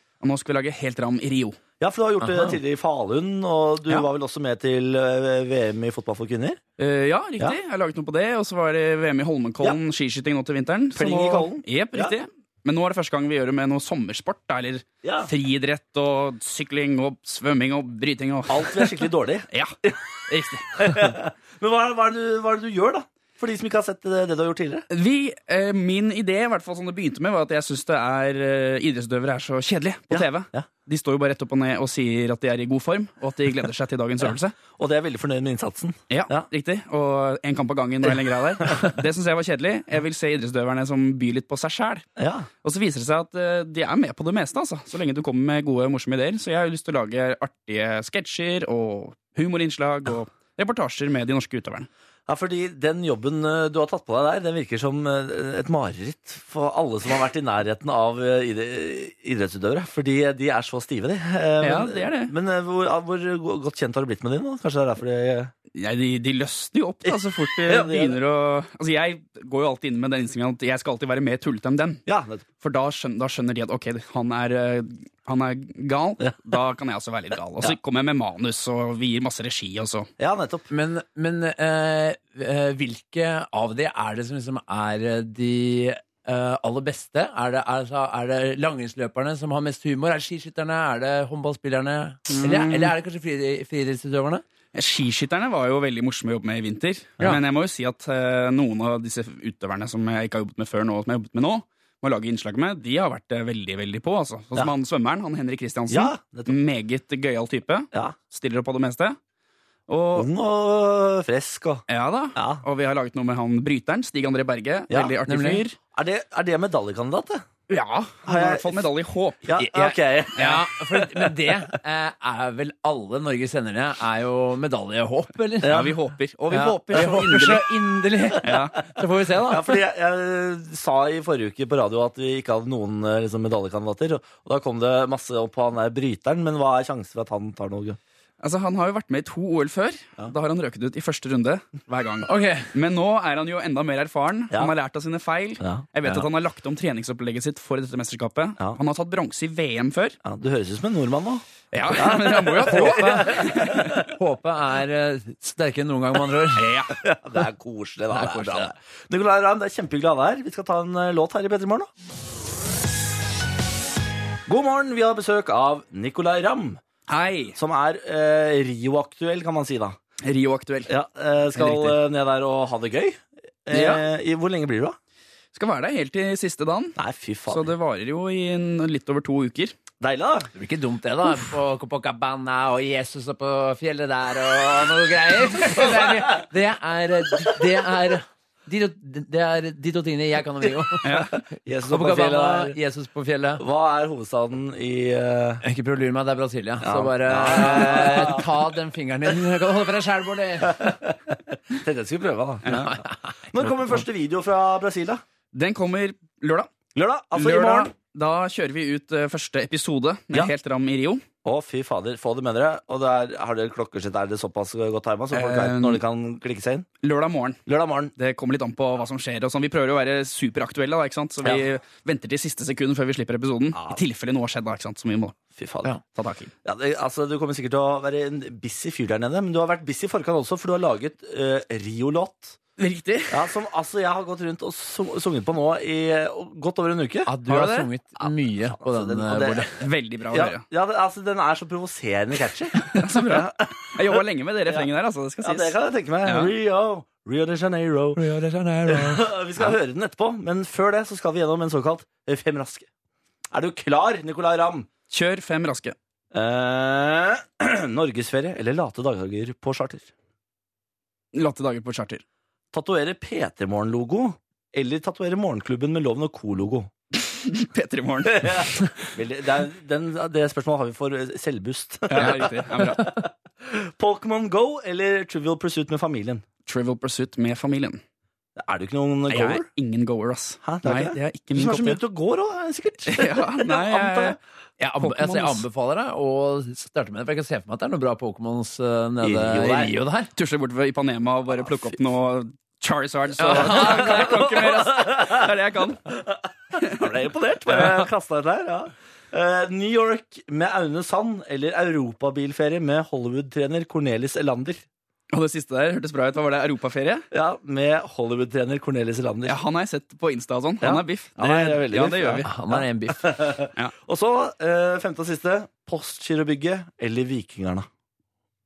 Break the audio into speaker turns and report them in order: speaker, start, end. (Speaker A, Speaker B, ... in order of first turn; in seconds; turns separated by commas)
Speaker A: 0.2-1.6, Speaker B: 1.8-6.6, Speaker A: 6.8-19.8, Speaker B: 10.9-12.2, Speaker B: 15.0-15.3, Speaker B: 18.5-20.0, Speaker A: 20.3-21.1, Speaker B: 20.8-24.9, Speaker A: 24.9-34.6, Speaker B: 30.1-30.7, Speaker B: 34.7-36.5, Speaker A: 36.1-42.1, Speaker B: 42.2-42.5, Speaker A: 42.6-51.9, Speaker B: 52.3-65.5, Speaker A: 61.6-62.3, Speaker A: 65.7-72.0, Speaker B: 67.1-68.2, Speaker B: 72.1-72.5, Speaker A: 72.6-80.1, Speaker B: 80.2-80.7, Speaker C: 80.7-94.4, Speaker A: 92.3-92.9, Speaker A: 94.7-109.2, Speaker B: 105.9-106.6, Speaker A: 109.9-110.3, Speaker B: 110.2-112.6, Speaker A: 111.9-115.8, Speaker B: 114.9-115.2, Speaker C: 115.3-115.6, Speaker B: 115.9-117.5, Speaker A: 117.7-119.5, Speaker B: 118.3-118.8, Speaker B: 119.4-121.5, Speaker C: 119.6-125.8, Speaker A: 120.4-120.6, Speaker B: 125.6-126.0, Speaker A: 125.6-127.7, Speaker C: 126.5-129.8, Speaker B: 126.9-127.3, Speaker A: 128.4-128.8, Speaker B: 129.3-138.0, Speaker A: 138.4-150.2, Speaker C: 142.2-142.7, Speaker B: 145.6-145.9, Speaker B: 150.2-154.1, Speaker A: 151.7-154.1, Speaker C: 154.1-156.7, Speaker A: 156.6-156.9, Speaker B: 156.9-161.9, Speaker C: 158.1-158.7, Speaker B: 164.5-166.8, Speaker A: 167.1-167.6, Speaker B: 167.6-170.0, Speaker A: 170.2-170.9, Speaker B: 170.9-175.0, Speaker A: 171.6-172.0, Speaker A: 173.7-174.1, Speaker A: 175.5-177.0, Speaker B: 177.0-177.7, Speaker A: 177.5-179.8, Speaker B: 180.0-180.5, Speaker C: 180.6-191.3, Speaker A: 191.0-191.4, Speaker B: 191.5-192.8, Speaker C: 191.9-193.6, Speaker B: 193.6-195.6, Speaker C: 195.6-200.9, Speaker B: 196.8-198.5, Speaker B: 200.6-205.2, Speaker A: 202.7-202.9, Speaker A: 205.5-206.7, Speaker B: 206.9-207.9, Speaker A: 207.3-211.2, Speaker B: 211.4-216.9, Speaker A: 215.3-216.0, Speaker A: 217.0-217.6, Speaker B: 217.7-218.1, Speaker A: 218.2-225.4, Speaker B: 223.7-224.0, Speaker B: 225.6-225.9, Speaker A: 226.1-226.5, Speaker B: 226.6-232.6, Speaker A: 232.8-233.5, Speaker B: 233.3-237.3, Speaker C: 237.3-239.8, Speaker A: 237.5-237.9, Speaker B: 238.2-239.7, Speaker A: 239.8-240.6, Speaker B: 240.3-244.9, Speaker A: 242.8-246.5, Speaker B: 245.4-248.2, Speaker C: 248.2-249.3, Speaker B: 248.9-252.9, Speaker B: 253.5-254.9, Speaker A: 255.1-256.0, Speaker B: 256.3-260.1, Speaker A: 261.3-262.2, Speaker B: 262.7-266.9, Speaker A: 267.2-269.1, Speaker B: 268.2-276.4, Speaker A: 272.1-273.1, Speaker A: 276.7-278.0, Speaker B: 278.6-279.7, Speaker A: 279.3-282.0, Speaker B: 280.6-284.4, Speaker A: 283.1-284.4, Speaker C: 284.8-290.3, Speaker A: 285.0-285.6, Speaker B: 289.2-289.9, Speaker A: 290.4-296.1, Speaker B: 293.4-295.5, Speaker C: 293.4-294.3, Speaker B: 296.1-304.8, Speaker A: 296.8-297.1, Speaker A: 297.7-298.1, Speaker A: 305.3-307.3, Speaker B: 307.3-309.6, Speaker A: 309.5-312.5, Speaker B: 310.8-317.9, Speaker C: 312.4-313.4